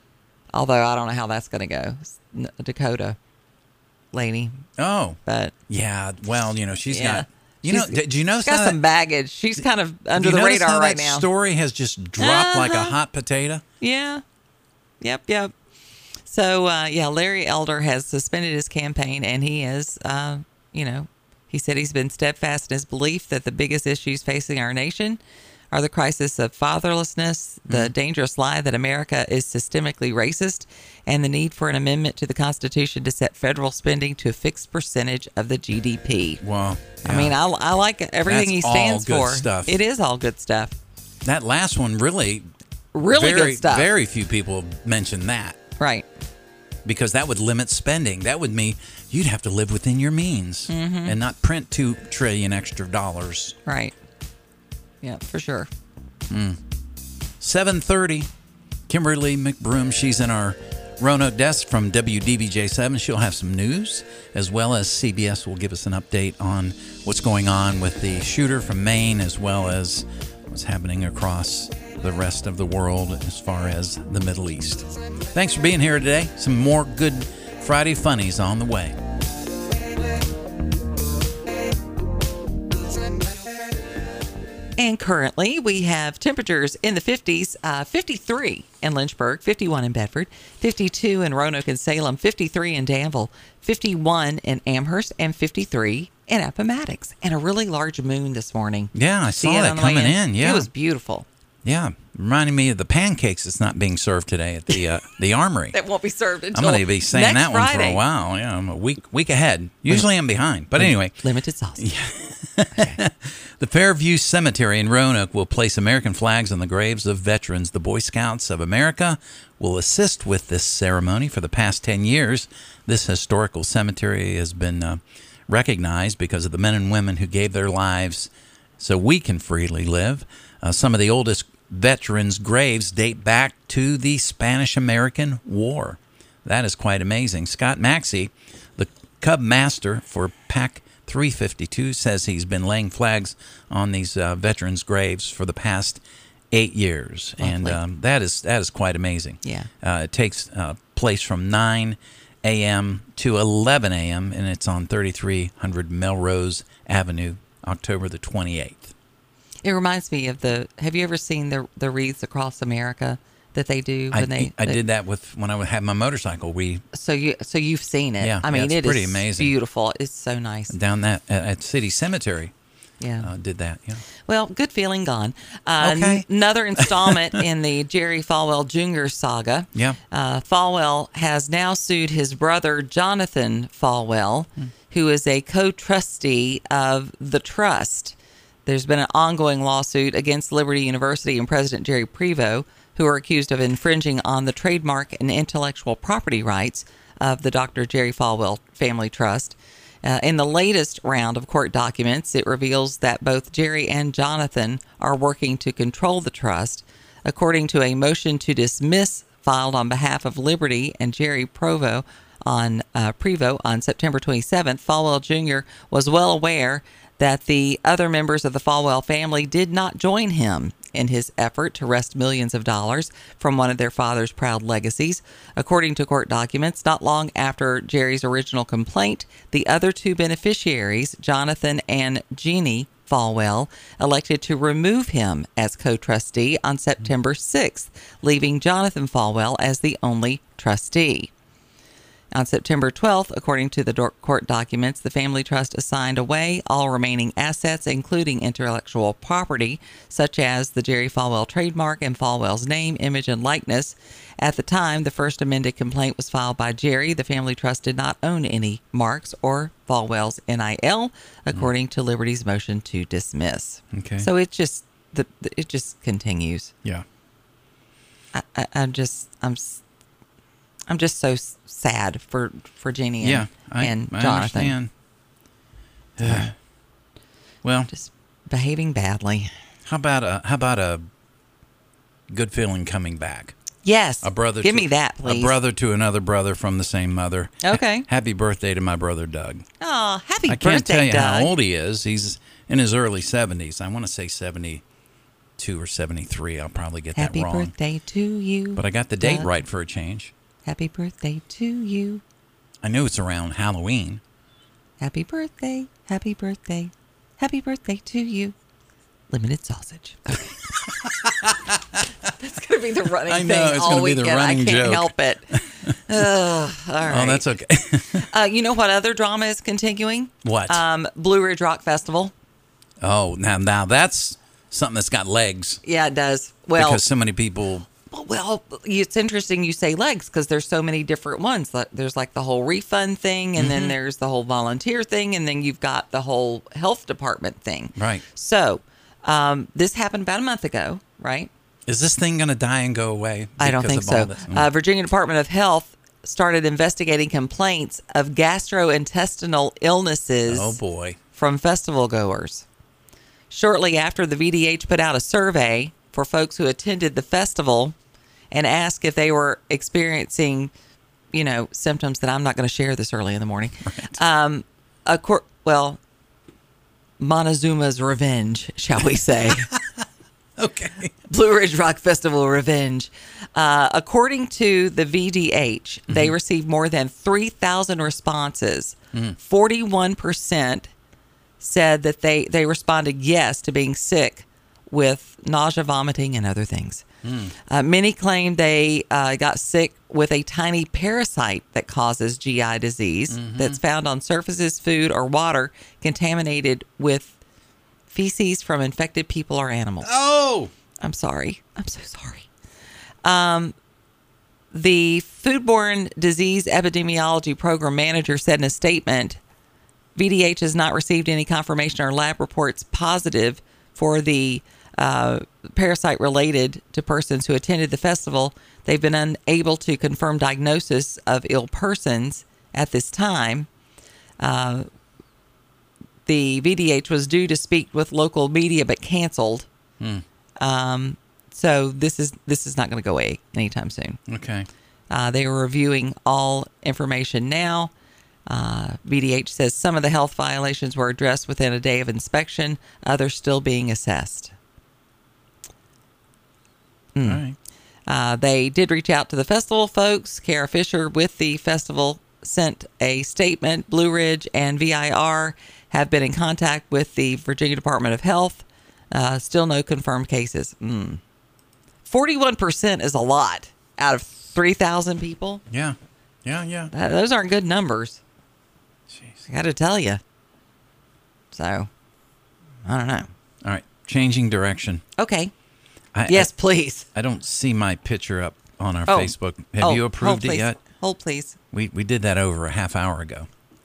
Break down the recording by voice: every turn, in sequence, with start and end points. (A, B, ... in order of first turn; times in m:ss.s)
0:00.5-0:03.2 A
0:04.1-0:04.6 A
0:04.8-0:08.8 B
0:05.3-0:05.5 A
0:06.9-0:11.3 A
0:10.2-0:13.6 B
0:12.2-0:13.0 A
0:13.8-0:14.2 A
0:15.0-0:15.5 A
0:16.3-0:25.2 A
0:25.7-0:36.4 A
0:27.7-0:27.9 B
0:36.4-0:37.4 B
0:37.0-0:40.8 A
0:38.2-0:39.8 B
0:41.2-0:42.5 B
0:42.9-0:43.9 A
0:43.1-0:45.6 B
0:45.8-0:46.1 A
0:46.8-0:53.6 B
0:50.7-0:51.2 A
0:53.6-0:53.9 A
0:55.0-0:55.7 A
0:56.3-0:56.6 B
0:57.4-0:58.3 B
0:58.9-1:19.0 B
1:24.8-1:41.3 A
1:38.9-1:40.7 B
1:41.6-1:45.8 B
1:45.7-1:48.0 A
1:46.5-1:51.2 B
1:50.8-1:51.9 A
1:51.8-2:26.0 B
1:52.7-1:53.0 A
2:26.5-2:38.9 B
2:27.4-2:27.8 A
2:29.4-2:29.7 A
2:39.6-2:44.8 A
2:44.1-2:46.8 B
2:46.9-2:50.8 A
2:48.2-2:49.5 B
2:50.7-2:52.5 B
2:53.0-2:53.3 A
2:53.2-2:54.0 B
2:54.3-3:08.1 A
2:55.8-2:57.4 B
3:08.6-4:01.3 A
4:02.3-4:26.7 A
4:23.9-4:24.3 B
4:28.3-4:29.8 A
4:30.9-4:34.8 A
4:33.2-4:34.9 B
4:36.2-4:36.5 B
4:36.2-4:36.5 A
4:37.6-4:37.9 B
4:37.9-4:39.5 A
4:39.9-4:41.0 B
4:42.3-4:43.5 B
4:43.8-4:45.6 A
4:44.2-4:49.6 B
4:47.6-4:48.1 A
4:49.8-4:51.5 A
4:50.5-4:54.8 B
4:55.6-4:57.7 B
4:57.2-4:59.5 A
4:58.8-5:00.3 B
5:00.6-5:02.2 A
5:02.8-5:04.2 B
5:05.0-5:08.5 A
5:09.3-5:10.6 A
5:10.9-5:12.0 B
5:12.2-5:17.5 A
5:13.2-5:16.1 B
5:17.0-5:18.3 B
5:18.1-5:22.3 A
5:20.4-5:20.8 B
5:23.0-5:25.8 B
5:25.8-5:27.0 A
5:26.8-5:27.9 B
5:28.1-5:41.5 A
5:33.6-5:34.0 B
5:38.0-5:38.2 B
5:41.9-5:44.7 B
5:43.6-5:50.8 A
5:50.5-5:51.2 B
5:51.3-5:52.6 A
5:53.5-5:57.9 A
5:58.5-6:00.7 A
6:01.3-6:06.0 A
6:03.8-6:04.2 B
6:07.2-6:09.7 A
6:09.7-6:10.0 B
6:10.6-6:11.2 B
6:11.3-6:20.9 A
6:16.1-6:16.4 B
6:21.6-6:27.0 A
6:27.2-6:27.5 B
6:27.7-6:37.4 A
6:33.3-6:33.8 B
6:38.1-6:40.1 A
6:40.0-6:40.7 B
6:41.0-6:42.5 A
6:43.2-6:43.8 A
6:44.7-6:49.4 A
6:50.2-7:03.7 A
7:04.4-7:04.9 A
7:06.3-7:09.7 A
7:10.6-7:14.2 A
7:14.3-7:14.7 B
7:15.1-7:17.9 A
7:18.5-7:24.5 A
7:27.1-7:27.4 A
7:27.3-7:27.6 B
7:28.1-7:41.2 A
7:42.1-7:45.6 A
7:45.7-7:46.9 B
7:46.9-7:48.2 A
7:49.1-7:49.4 B
7:49.5-7:50.2 A
7:51.5-7:51.9 A
7:52.8-7:53.3 A
7:53.6-7:55.0 B
7:55.2-7:55.5 A
7:56.1-7:56.5 B
7:56.3-7:57.1 A
7:57.1-8:00.8 B
7:59.1-8:01.6 A
8:01.7-8:03.5 B